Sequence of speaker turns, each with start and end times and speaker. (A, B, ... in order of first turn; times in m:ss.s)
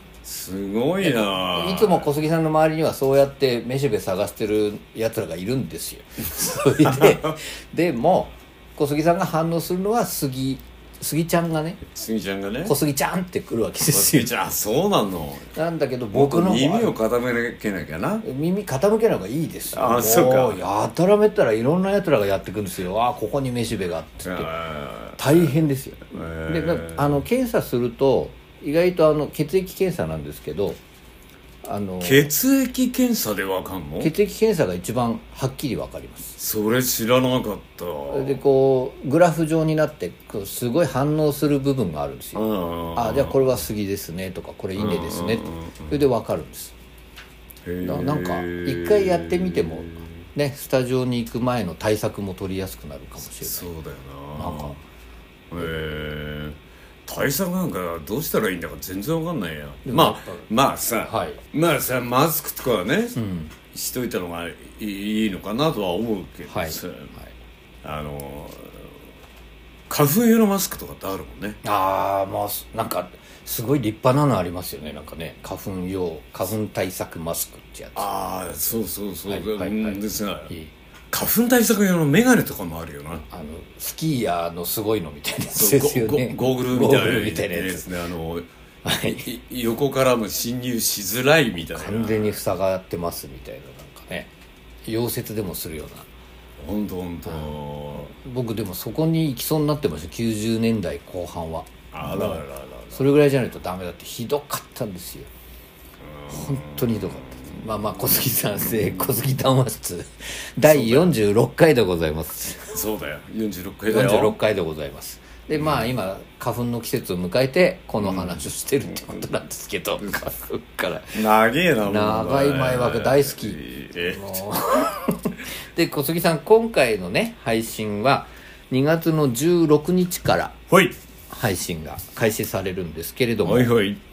0:00.2-0:02.1 A
0:01.0-0:11.8 B
0:06.8-0:07.3 A
0:11.8-0:12.7 A
0:12.6-0:14.3 B
0:13.9-0:15.5 A
0:15.5-0:16.9 B
0:16.1-0:18.2 A
0:18.2-0:24.5 B
0:19.7-0:20.6 A
0:24.2-0:25.5 A
0:25.2-0:30.8 B
0:26.1-0:27.2 A
0:31.6-0:32.3 B
0:32.0-0:34.1 A
0:34.0-0:36.4 B
0:36.4-0:38.4 A
0:38.1-0:42.4 B
0:42.3-0:43.4 A
0:42.9-0:46.7 B
0:44.8-0:46.0 A
0:47.6-0:50.1 A
0:47.8-0:53.7 B
0:53.4-0:54.8 A
0:54.4-0:54.8 B
0:55.5-1:03.2 A
0:59.8-1:00.5 B
1:01.0-1:01.4 B
1:03.2-1:03.5 B
1:03.7-1:07.1 A
1:06.5-1:07.3 B
1:07.8-1:08.9 A
1:09.9-1:11.6 A
1:11.6-1:18.1 B
1:18.0-1:20.5 A
1:19.3-1:20.7 B
1:21.1-1:23.2 A
1:23.3-1:27.9 B
1:25.5-1:28.5 A
1:28.8-1:29.3 B
1:29.2-1:32.4 A
1:31.7-1:34.3 B
1:34.8-1:36.1 B
1:36.6-1:38.1 A
1:38.1-1:45.3 B
1:41.9-1:43.0 A
1:46.0-1:47.6 A
1:46.3-1:52.8 B
1:48.6-1:49.1 A
1:50.6-1:51.1 A
1:52.7-1:54.4 A
1:53.9-2:01.2 B
1:55.6-1:55.9 A
1:58.0-1:59.2 A
2:01.1-2:04.4 A
2:01.8-2:10.6 B
2:10.7-2:11.0 A
2:11.3-2:13.7 B
2:13.4-2:14.0 A